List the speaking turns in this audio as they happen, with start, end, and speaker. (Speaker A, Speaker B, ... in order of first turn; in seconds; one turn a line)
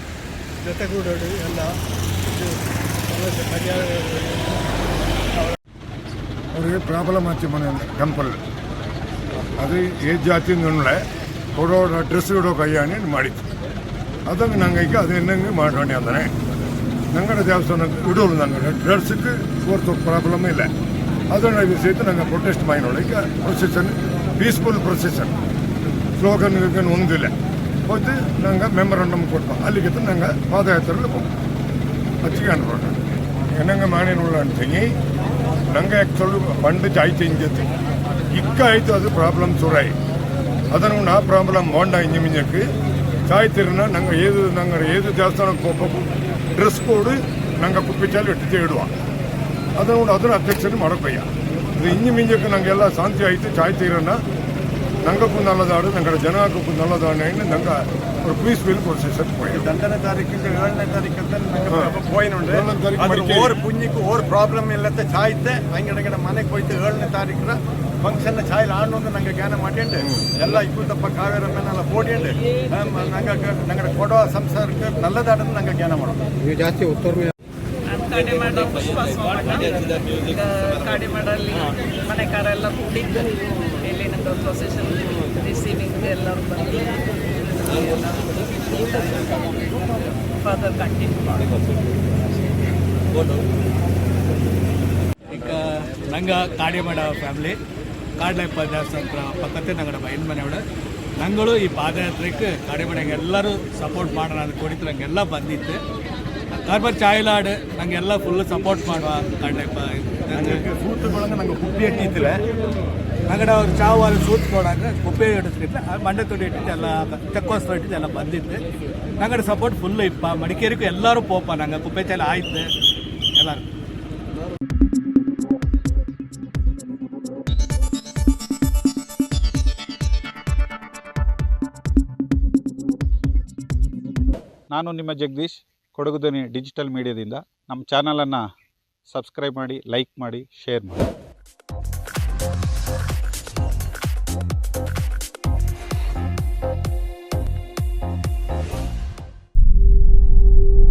Speaker A: 0.6-4.8
Speaker B: 6.5-8.4
Speaker B: 9.6-11.0
Speaker B: 11.6-13.4
Speaker B: 14.3-16.3
Speaker B: 17.1-20.7
Speaker B: 21.3-25.3
Speaker B: 26.2-27.3
Speaker B: 27.9-31.3
Speaker B: 32.2-33.0
Speaker B: 33.5-34.9
Speaker B: 35.7-37.7
Speaker B: 38.3-39.9
Speaker B: 40.7-42.7
Speaker B: 43.3-46.0
Speaker B: 46.6-48.9
Speaker B: 49.8-54.2
Speaker B: 55.0-59.6
Speaker C: 59.5-62.6
Speaker B: 61.6-63.6
Speaker C: 63.3-76.1
Speaker B: 70.0-70.3
Speaker D: 77.9-89.3
Speaker D: 90.4-91.5
Speaker E: 95.3-97.6
Speaker E: 98.2-100.6
Speaker E: 101.2-105.8
Speaker E: 106.6-110.6
Speaker C: 110.4-112.4
Speaker E: 113.3-118.6
Speaker E: 119.2-122.6
Speaker E: 123.4-123.6
Speaker F: 134.7-138.5
Speaker F: 139.1-141.1